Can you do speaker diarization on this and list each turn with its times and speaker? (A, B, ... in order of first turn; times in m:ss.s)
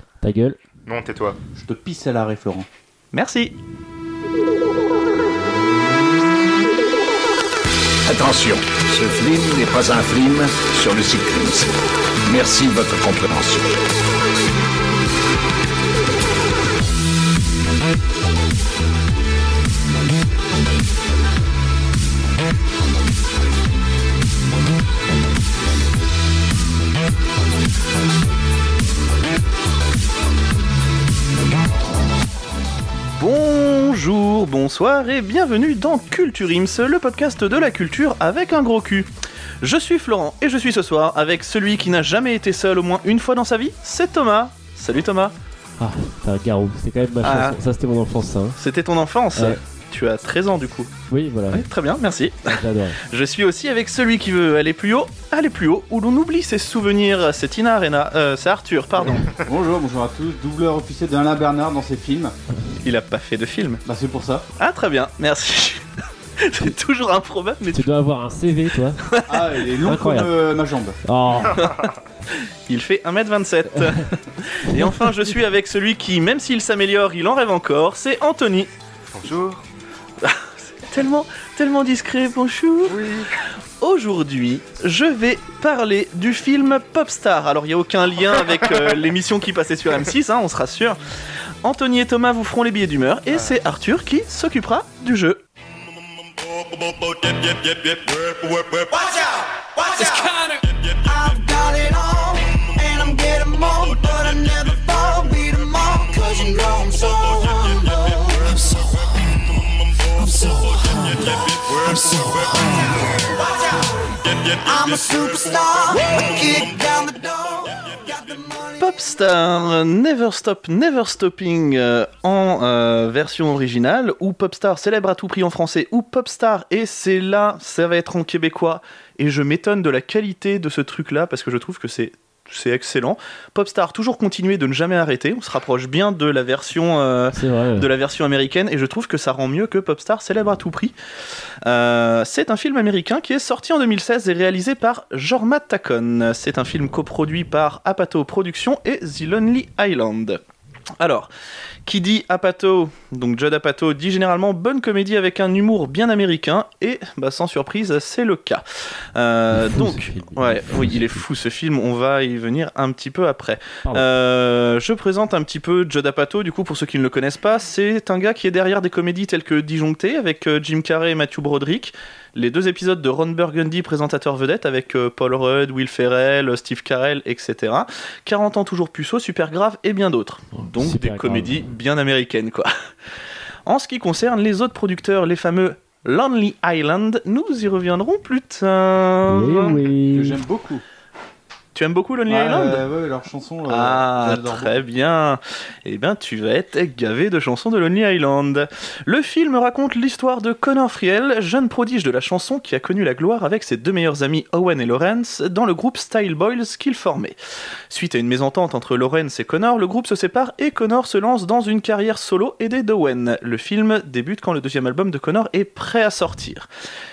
0:00.2-0:00.6 A
0:00.9-0:01.4 B
0:01.6-0:02.7 C
0:03.1-0:03.5 D
0:08.1-0:11.7 E
0:12.3-0:13.7 E
0:33.2-0:39.1 D
0:39.6-0:45.3 D
0:45.8-0:48.6 A
0:47.2-0:47.6 D
0:48.6-0:50.9 D
0:51.1-0:51.7 A
0:51.5-0:52.5 D
0:52.5-0:53.0 A
0:53.1-0:59.4 D
0:59.4-1:02.4 C
1:02.8-1:03.8 D
1:03.9-1:04.4 C
1:04.6-1:05.8 D
1:06.4-1:07.9 D
1:07.7-1:09.0 A
1:09.1-1:09.5 D
1:09.3-1:11.0 C
1:09.8-1:10.4 A
1:11.0-1:11.7 A
1:11.5-1:11.8 B
1:12.4-1:18.7 D
1:13.7-1:14.0 A
1:14.7-1:15.2 A
1:19.1-1:19.6 B
1:20.2-1:23.0 D
1:22.9-1:23.3 B
1:23.8-1:31.0 D
1:31.6-1:35.4 D
1:41.1-1:49.0 F
1:50.2-1:51.2 F
1:54.6-1:57.6 F
1:58.3-1:58.6 F
1:58.8-2:20.9 D
2:17.3-2:17.9 A
2:21.6-2:30.4 D
2:31.0-2:31.3 D
2:31.9-2:38.6 D
2:39.2-3:02.7 D
2:39.5-2:41.2 A
3:00.6-3:01.6 A
3:03.7-3:09.8 D
3:09.3-3:10.4 A
3:10.1-3:10.8 C
3:11.8-3:12.9 D
3:12.3-3:14.8 C
3:13.7-3:27.4 D
3:27.9-3:36.7 D